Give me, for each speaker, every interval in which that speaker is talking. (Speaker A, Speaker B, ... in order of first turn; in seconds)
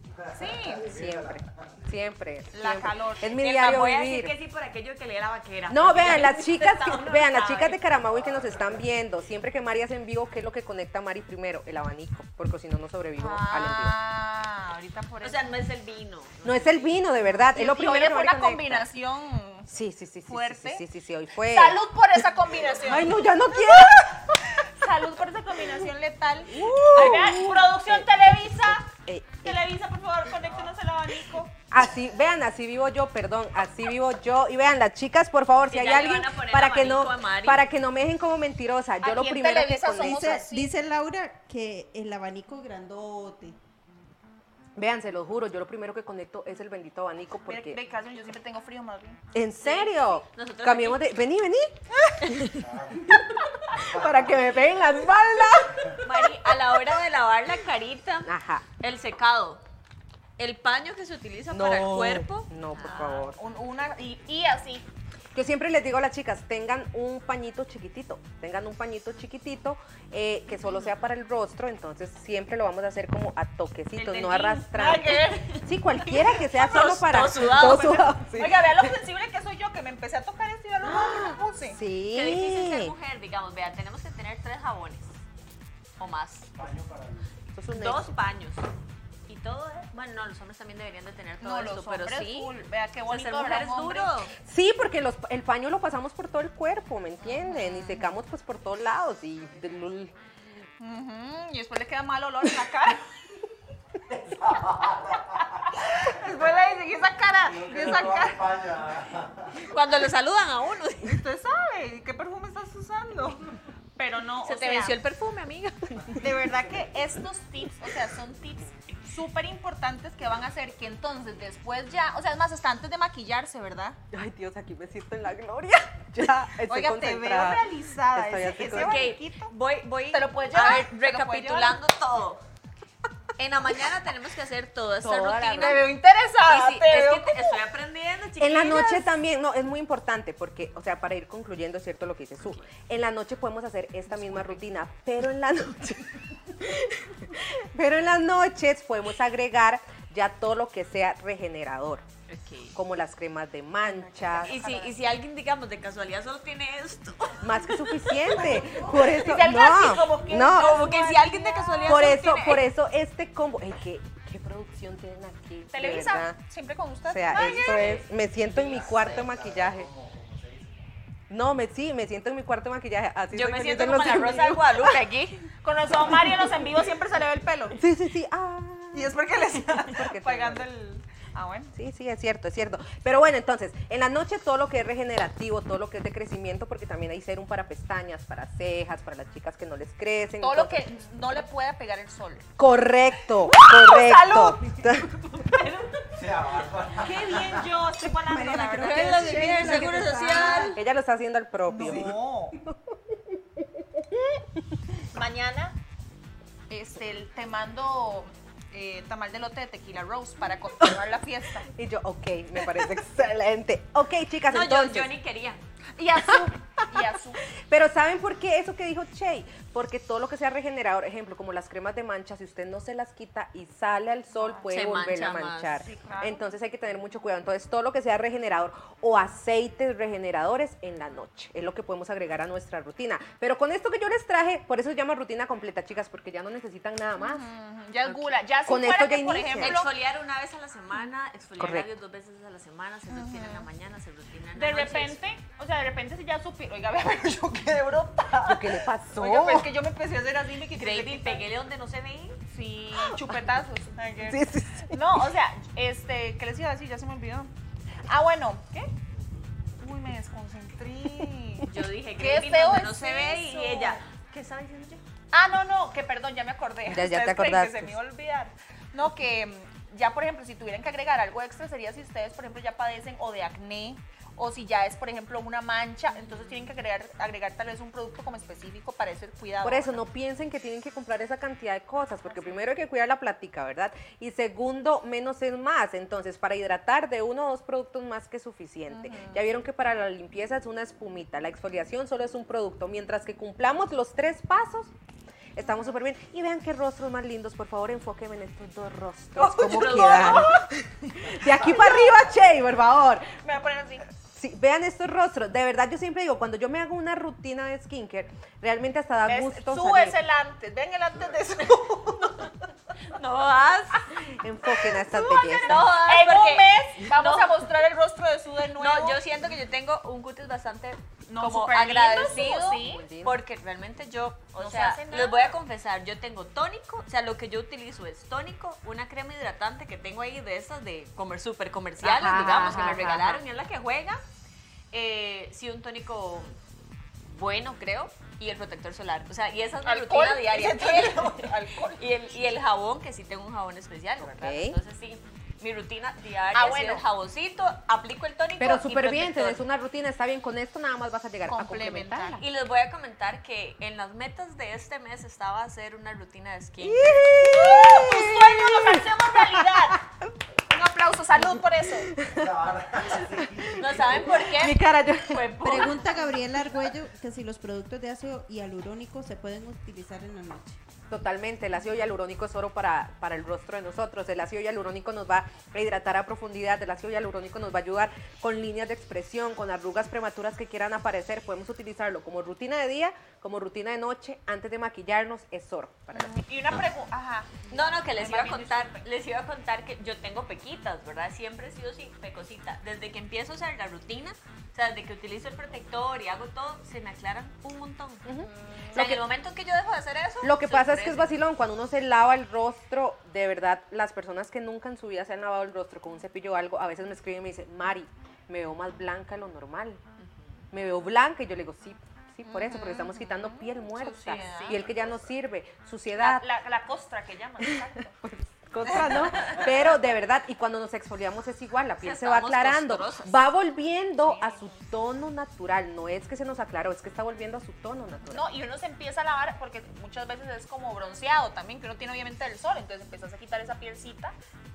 Speaker A: 0.2-1.6, 8.1-8.8, 30.4-30.7, 52.5-53.2, 53.7-54.3, 86.5-87.3, 104.1-105.7, 107.5-109.7, 168.3-170.8, 196.2-197.7, 362.3-364.2
Speaker B: 0.3-0.9, 2.5-3.3, 13.2-15.5, 17.2-19.7, 20.3-20.8, 21.4-31.5, 39.0-40.7, 47.5-49.2, 62.8-64.8, 74.0-76.8, 77.5-81.8, 91.4-94.1, 97.3-98.1, 100.8-103.1, 105.6-108.6, 111.0-115.0, 116.1-124.0, 126.7-129.5, 130.1-131.8, 135.6-137.6, 153.8-154.9, 158.1-162.2, 165.7-168.1, 175.6-177.8, 178.9-181.7, 190.4-192.4, 193.2-195.0, 196.9-200.7, 201.7-202.6, 205.0-205.8, 206.7-211.7, 216.0-217.4, 224.3-224.8, 225.8-226.5, 237.2-239.9, 243.1-243.7, 244.5-251.4, 252.5-257.5, 258.1-258.9, 259.8-280.0, 282.2-282.6, 288.9-289.4, 299.4-302.2, 303.4-304.1, 309.2-312.5, 315.0-319.2, 321.3-323.1, 324.6-325.5, 332.3-333.0, 339.8-342.0, 346.5-347.0, 351.5-352.4, 357.3-360.0, 360.7-362.1, 386.1-389.0, 412.4-414.8, 416.2-418.1, 418.8-419.8, 424.2-424.7, 428.3-434.3
Speaker C: 0.8-4.3, 5.7-13.9, 16.4-18.8, 19.7-21.8, 22.7-24.4, 26.5-28.0, 28.6-29.6, 31.7-40.4, 44.8-47.8, 49.3-51.8, 53.1-56.2, 58.2-58.6, 61.5-63.4, 65.3-78.9, 80.9-82.9, 87.5-88.1, 94.4-100.1, 124.1-129.0, 135.0-135.8, 138.4-152.1, 152.7-154.6, 157.4-160.8, 161.9-166.4, 167.1-169.9, 171.3-174.9, 177.8-179.2, 179.7-180.7, 181.7-190.8, 192.6-195.1, 200.7-202.1, 211.6-215.1, 216.3-217.0, 217.7-237.5, 238.1-239.8, 241.6-241.9, 248.4-249.7, 254.3-255.2, 266.9-267.9, 279.6-294.9, 295.5-303.3, 304.3-310.2, 314.3-315.9, 322.7-323.4, 332.0-333.4, 344.2-344.8, 348.6-352.4, 356.8-360.2, 362.1-362.6, 363.2-365.9, 371.1-386.3, 398.2-399.2, 400.4-410.0, 410.7-416.5, 417.6-428.4
Speaker D: 3.2-7.8, 15.2-17.1, 35.7-37.6, 49.6-51.1, 52.2-52.6, 56.0-59.6, 60.4-63.0, 76.6-78.2, 82.1-85.2, 86.0-86.5, 87.7-88.6, 89.3-92.5, 93.1-94.3, 109.6-111.2, 114.4-116.2, 128.7-132.4, 133.4-135.9, 136.4-139.1, 144.1-144.6, 152.3-152.8, 154.4-158.4, 160.2-162.7, 167.3-168.0, 173.3-175.5, 195.2-196.3, 198.8-200.8, 214.5-215.6, 224.7-225.8, 239.6-245.2, 250.7-252.4, 261.6-264.3, 299.5-300.5, 312.2-312.5, 313.0-314.1, 315.5-317.6, 318.8-334.2, 334.9-336.6, 337.3-349.6, 352.4-357.2, 363.7-366.3, 387.7-398.3, 398.9-401.3, 422.0-423.4
Speaker E: 40.0-43.6, 198.2-200.8, 365.6-370.8